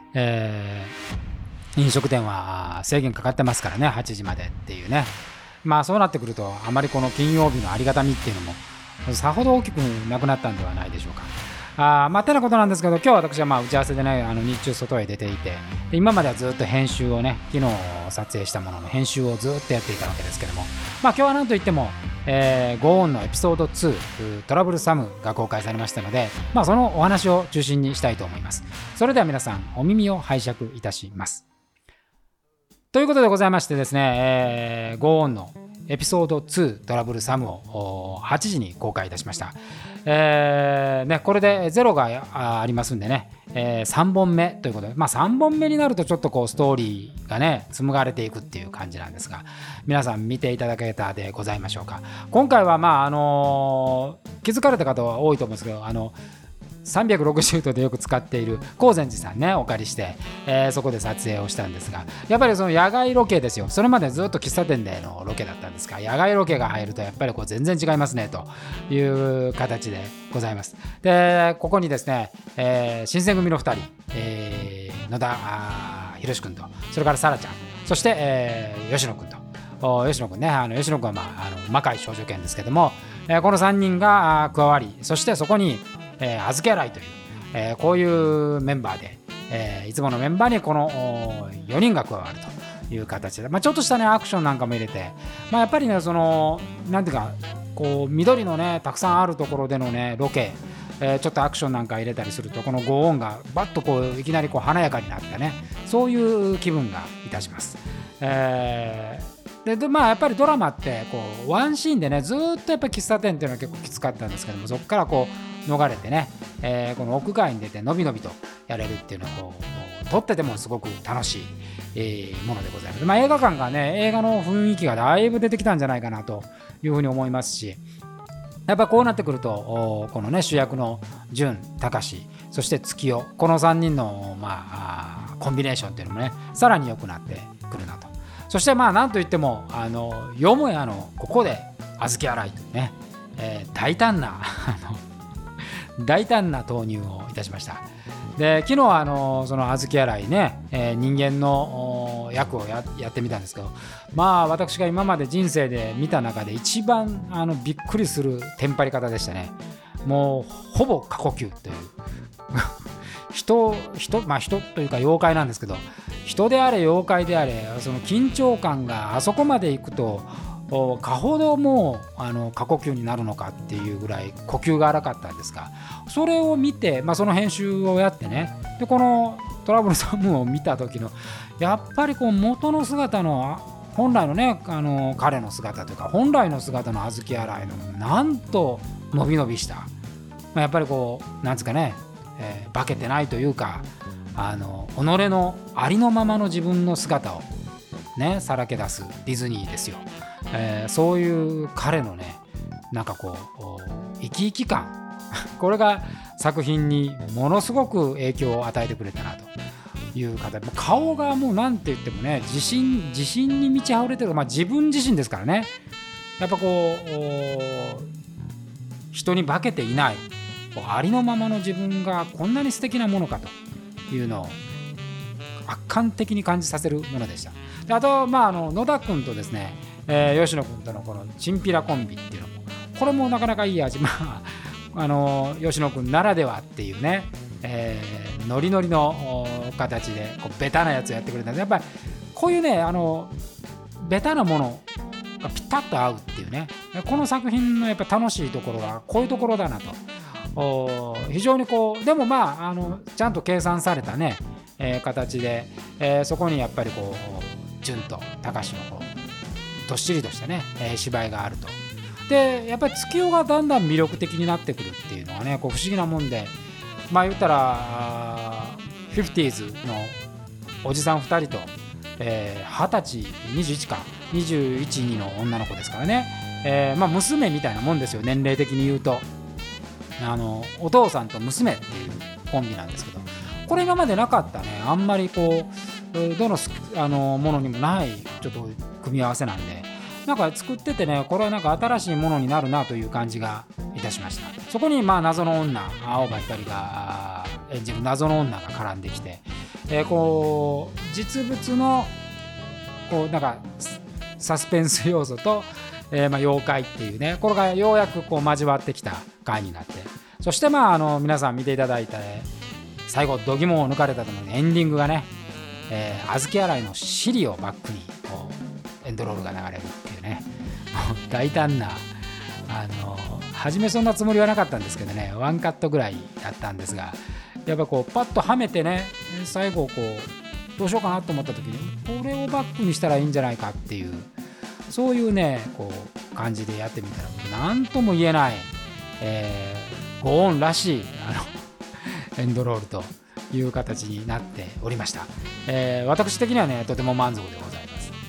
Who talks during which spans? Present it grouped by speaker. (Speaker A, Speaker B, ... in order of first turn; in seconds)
Speaker A: 0.1-0.9, 1.8-31.4, 32.9-56.2, 56.8-127.8, 128.7-145.0, 146.0-162.0, 163.3-189.9, 190.5-197.5, 198.2-205.0, 205.6-209.5, 210.1-215.7, 216.4-218.1, 219.1-223.6, 224.1-224.6, 225.7-243.3, 244.0-244.9, 245.4-250.0, 250.6-259.1, 259.9-266.6, 267.1-270.2, 270.8-279.3, 280.2-302.1, 303.1-312.5, 313.1-315.3, 315.9-322.1, 322.7-334.3, 334.9-348.1